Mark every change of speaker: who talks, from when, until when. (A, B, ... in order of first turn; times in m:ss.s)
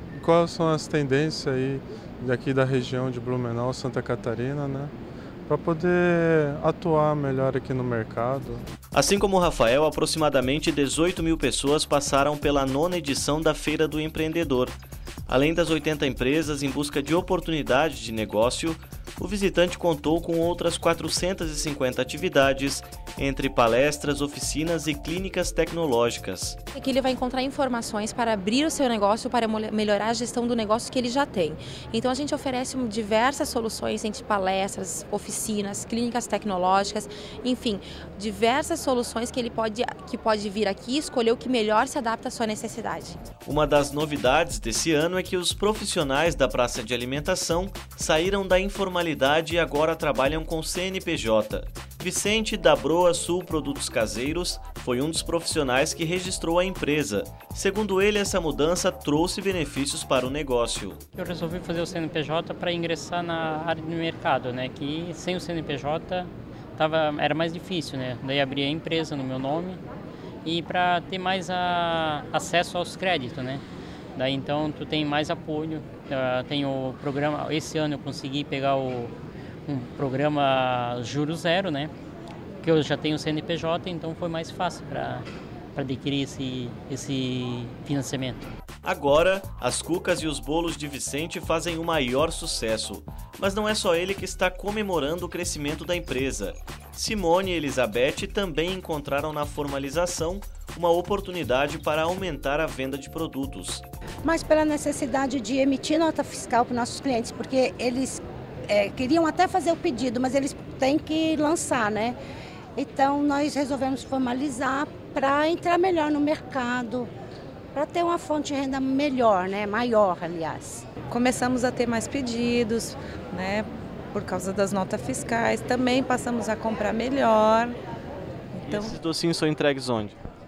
0:00.2-0:04.9 A
0:05.5-0:08.6 A
0:08.9-0:14.8 B
0:15.3-0:26.6 B
0:26.7-0:43.2 C
0:43.4-1:01.0 B
1:01.2-1:09.8 D
1:10.4-1:13.6 D
1:14.1-1:19.1 D
1:19.6-1:21.9 D
1:22.6-1:28.5 D
1:28.8-1:43.8 B
1:44.2-1:52.2 E
1:52.8-1:57.1 E
1:57.7-2:00.9 E
2:01.1-2:07.8 F
2:08.6-2:09.0 F
2:08.6-2:10.1 B